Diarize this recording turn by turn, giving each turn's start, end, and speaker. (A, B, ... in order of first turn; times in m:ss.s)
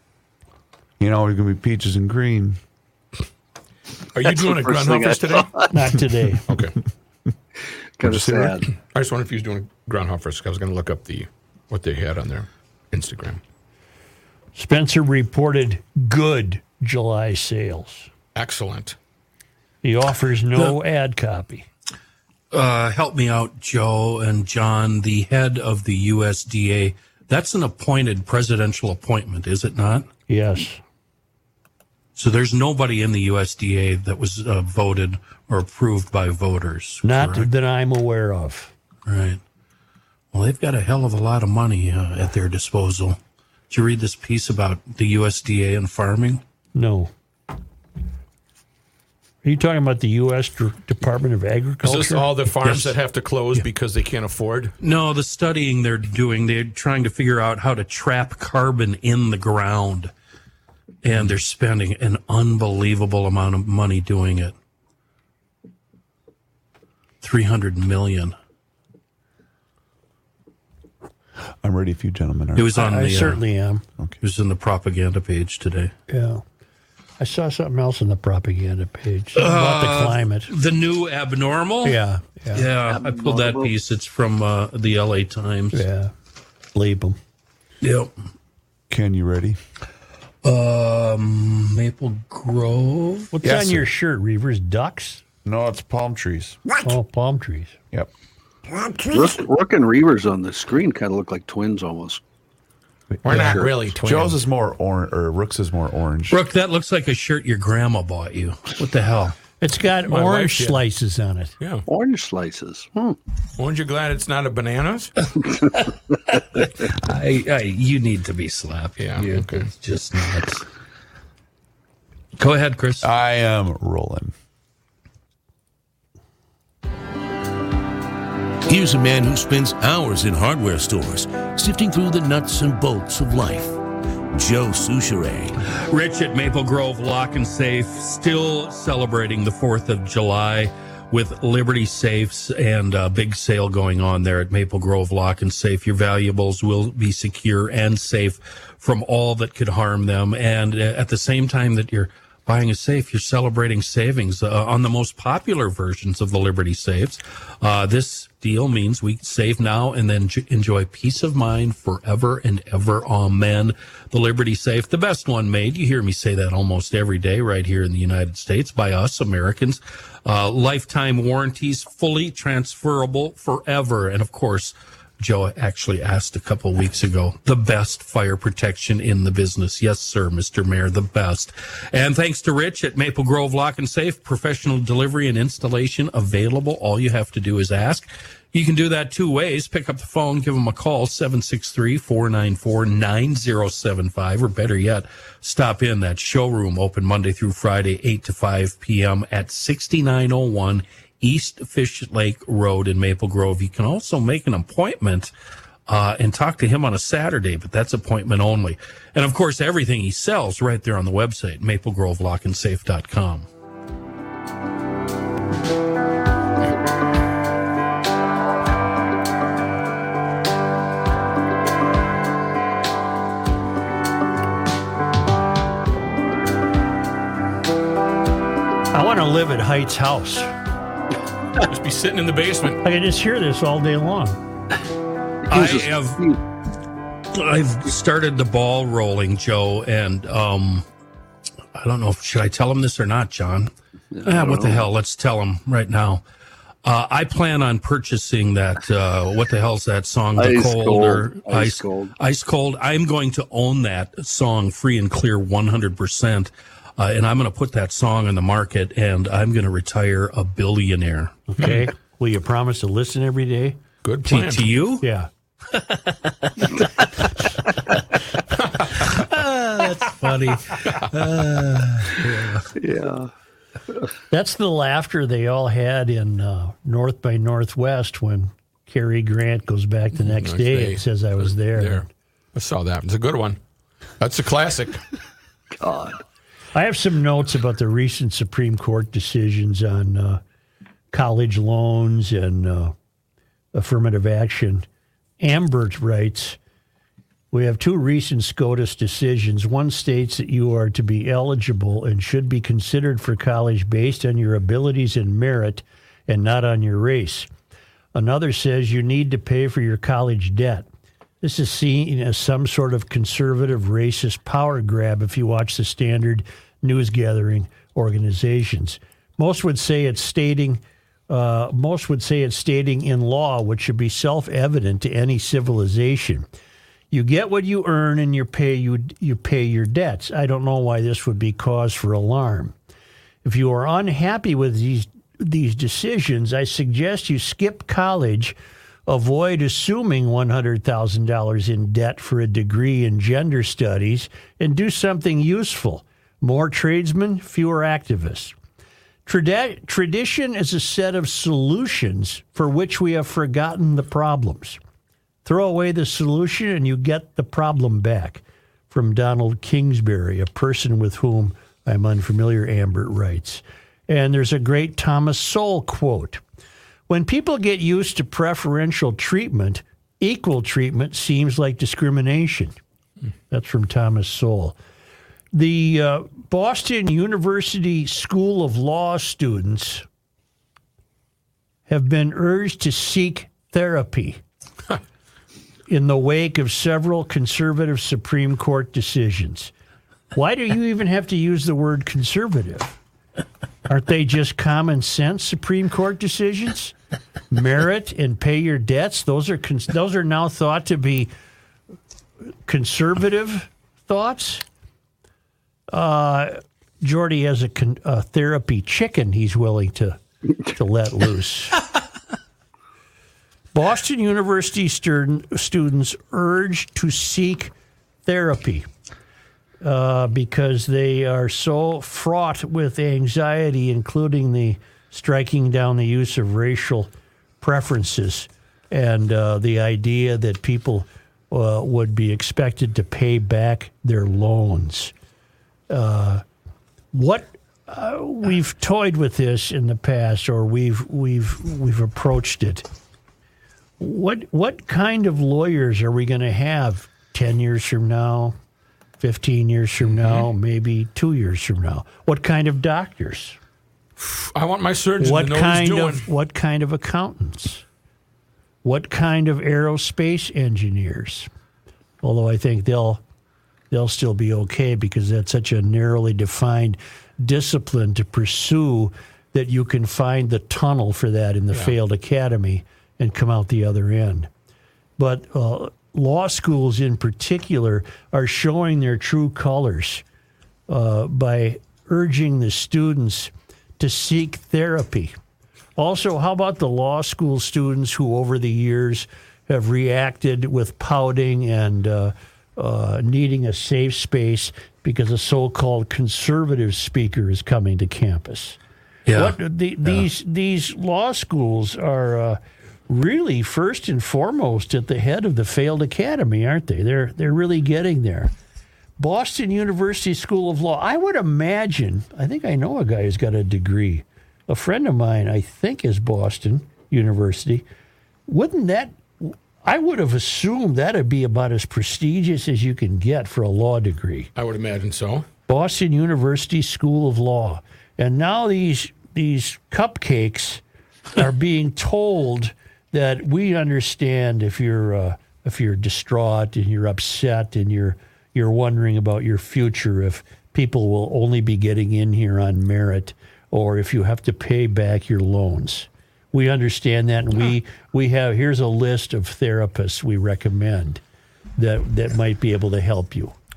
0:01.0-0:02.6 A
0:04.1-0:05.5 B
0:04.2-0:05.7 C
0:05.7-0:06.5 D
0:06.5-0:06.8 B
0:08.0-0:08.7 C
0:08.0-0:08.6 A
0:08.9-0:13.4 B
0:14.6-0:18.1 D
0:18.3-0:19.0 B
0:19.8-0:21.6 D
0:22.5-0:30.1 E
0:30.3-0:30.8 D
0:32.2-0:37.5 E
0:37.0-0:38.7 D
0:39.0-0:39.4 E
0:40.3-0:43.2 E
0:43.7-0:46.4 E
0:46.7-0:47.1 D
0:49.4-0:52.4 D
0:51.8-0:54.7 B
0:52.6-0:52.9 E
0:54.8-1:00.1 E
1:01.0-1:04.5 E
1:07.2-1:08.3 E
1:11.6-1:12.8 A
1:12.6-1:13.4 E
1:12.7-1:13.8 D
1:14.2-1:15.9 E
1:16.1-1:16.4 D
1:17.2-1:20.5 D
1:19.3-1:22.0 E
1:21.8-1:22.6 D
1:22.5-1:25.8 E
1:22.9-1:23.7 C
1:25.7-1:26.1 D
1:26.7-1:27.2 D
1:27.8-1:28.1 E
1:28.9-1:29.6 A
1:30.4-1:33.3 E
1:33.3-1:35.2 D
1:33.4-1:33.9 A
1:35.4-1:36.6 A
1:36.8-1:37.8 D
1:39.1-1:42.2 C
1:43.1-1:46.4 A
1:43.2-1:44.4 B
1:43.3-1:43.7 C
1:46.3-1:49.4 E
1:49.6-1:51.5 D
1:50.1-1:50.8 B
1:51.6-1:51.8 B
1:51.9-1:53.2 C
1:53.6-1:55.1 B
1:56.4-2:00.6 E
1:59.0-1:59.7 B
2:02.4-2:03.1 E
2:03.0-2:04.3 A
2:08.6-2:13.8 F
2:14.3-2:15.5 F
2:15.9-3:25.3 E
3:25.9-3:33.5 E
3:48.9-3:50.5 D
3:51.6-3:52.8 B
3:52.8-3:54.4 D
3:55.5-3:56.4 E
3:55.5-3:56.4 C
3:57.3-4:00.8 E
4:01.7-4:03.7 E
4:04.1-4:04.8 C
4:04.2-4:06.2 E
4:06.8-4:21.4 E
4:10.4-4:12.1 C
4:21.5-4:23.8 D
4:21.6-4:21.9 B
4:24.0-4:24.7 B
4:24.2-4:25.0 E
4:25.0-4:25.3 D
4:25.7-4:27.3 E
4:28.9-4:32.7 E
4:32.8-4:33.3 C
4:34.3-4:42.0 D
4:40.2-4:43.6 B
4:44.2-4:45.0 B
4:45.8-4:46.2 C
4:46.7-4:50.4 D
4:51.1-4:52.9 D
4:53.7-4:54.8 D
4:55.4-4:56.6 D
4:57.5-5:07.5 D
5:08.1-5:10.8 D
5:11.4-5:26.4 D
5:27.1-5:32.7 D
5:33.4-5:38.6 D
5:39.1-5:48.5 D
5:49.2-5:54.8 D
5:55.4-6:06.4 D
6:07.1-6:12.8 D
6:13.5-6:14.8 D
6:15.5-6:20.0 D
6:21.9-6:24.4 D
6:25.9-6:29.7 D
6:30.3-6:33.0 D
6:33.8-6:36.9 D
6:37.5-6:41.3 D
6:42.6-6:44.6 D
6:45.9-6:50.2 D
6:50.7-6:51.8 D
6:53.7-6:57.7 D
6:58.2-6:58.9 D
6:59.8-7:15.1 D
7:15.9-7:16.4 D
7:17.1-7:22.8 D
7:24.0-7:28.6 D
7:29.2-7:33.6 D
7:34.2-7:36.2 B
7:35.2-7:37.8 D
7:38.8-7:41.5 D
7:42.2-7:43.2 D
7:43.9-7:54.5 D
7:55.2-8:00.2 D
8:00.9-8:05.3 D
8:06.0-8:18.8 D
8:19.3-8:20.2 E
8:19.3-8:28.5 D
8:29.2-8:37.8 D
8:38.5-8:44.5 D
8:44.6-8:45.4 B
8:45.7-8:50.8 D
8:51.3-9:11.2 D
9:11.8-9:13.5 D